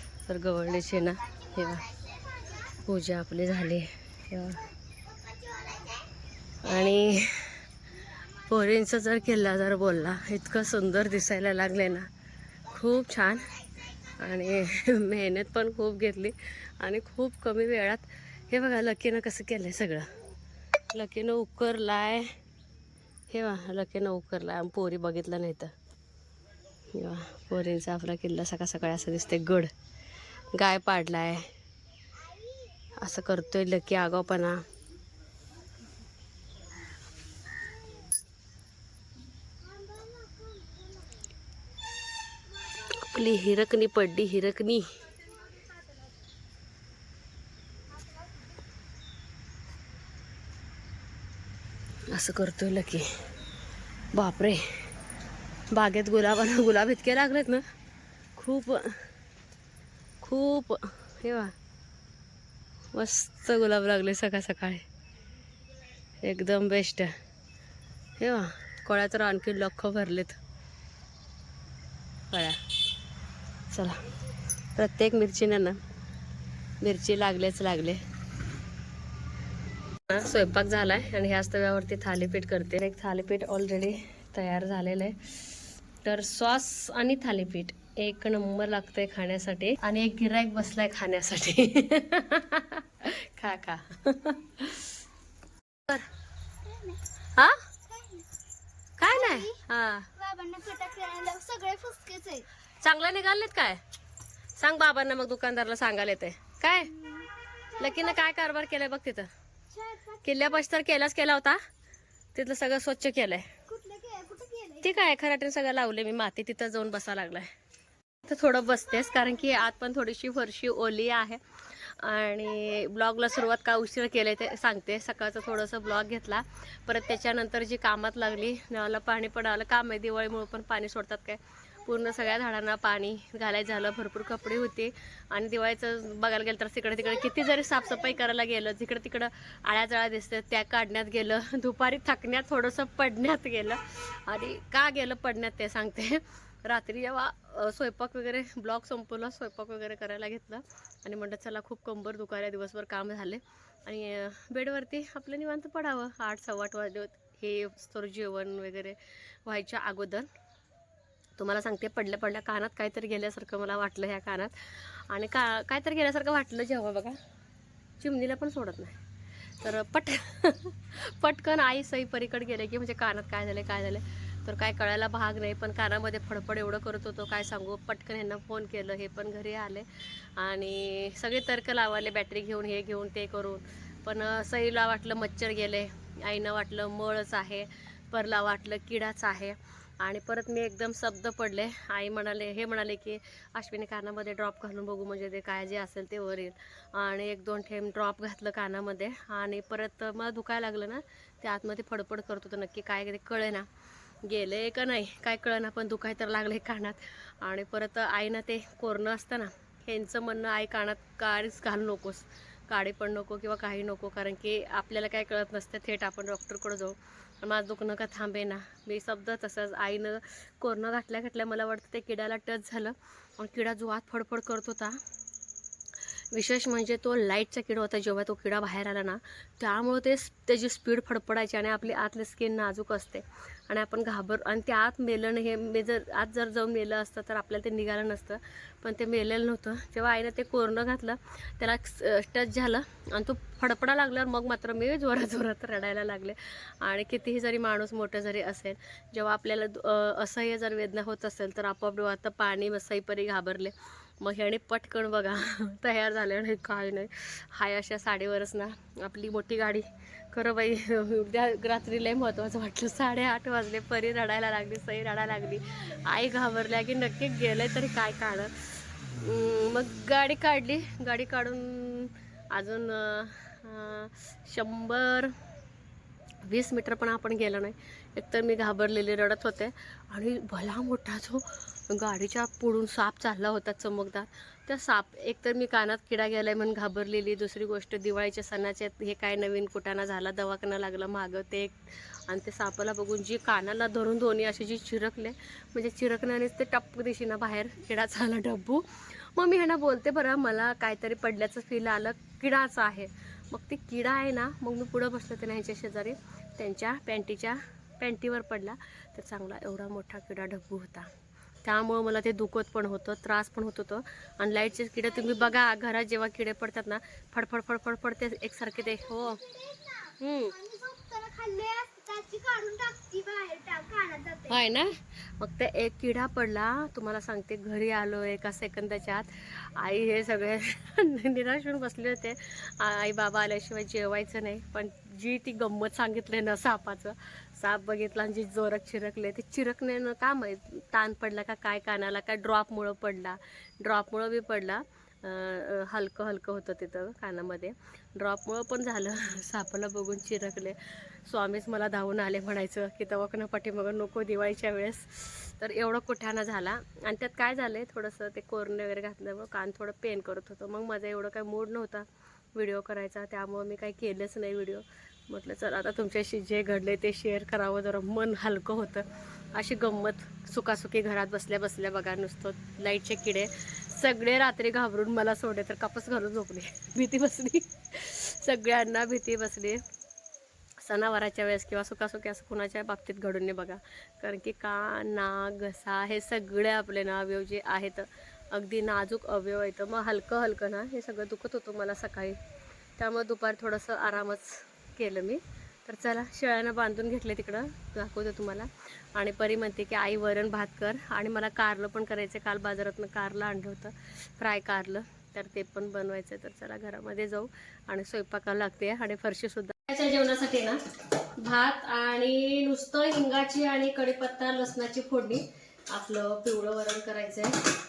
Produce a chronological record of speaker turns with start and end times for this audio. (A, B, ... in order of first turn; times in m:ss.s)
0:00.2-0:01.9 A
0:01.9-0:02.6 B
0:02.7-0:04.6 A
0:05.2-0:06.0 B
0:06.6-0:07.6 A
0:08.4-0:12.1 A
0:12.7-0:13.5 A
0:14.2-0:20.1 A
0:20.9-0:22.3 A
0:23.3-0:25.7 A
0:26.9-0:29.7 A
0:30.5-0:31.5 A
0:33.0-0:34.6 A
0:39.6-0:41.0 B
0:42.8-0:44.9 A
0:52.1-0:53.1 A
0:54.1-0:54.6 A
0:55.7-0:57.6 A
0:58.4-0:59.0 A
1:00.2-1:01.5 A
1:02.9-1:04.8 A
1:06.2-1:07.1 A
1:08.2-1:10.4 A
1:12.3-1:12.6 A
1:13.7-1:14.0 A
1:14.8-1:15.8 A
1:16.8-1:18.0 A
1:20.1-1:25.2 A
1:26.0-1:34.9 A
1:36.6-1:37.0 B
1:37.9-1:38.3 B
1:39.0-1:40.1 A
1:39.0-1:39.6 B
1:40.2-1:42.5 B
1:42.8-1:43.8 A
1:44.6-1:46.9 A
1:46.8-1:48.3 B
1:47.8-1:49.3 A
1:49.7-1:50.6 B
1:50.2-1:51.6 A
1:52.3-1:53.5 A
1:53.7-1:55.1 B
1:54.8-1:57.5 A
1:58.2-2:40.3 A
2:41.4-2:47.2 A
2:48.0-2:49.0 A
2:49.6-2:59.8 A
3:00.4-3:23.7 A
3:24.2-3:45.0 A
3:46.3-4:35.3 A
4:36.4-5:11.1 A
5:11.6-5:19.4 A
5:15.1-5:15.5 B
5:18.8-5:24.6 B
5:20.2-5:20.5 A
5:24.5-6:19.8 A
6:20.8-6:32.4 A
6:33.0-6:50.8 A
6:51.4-6:57.6 A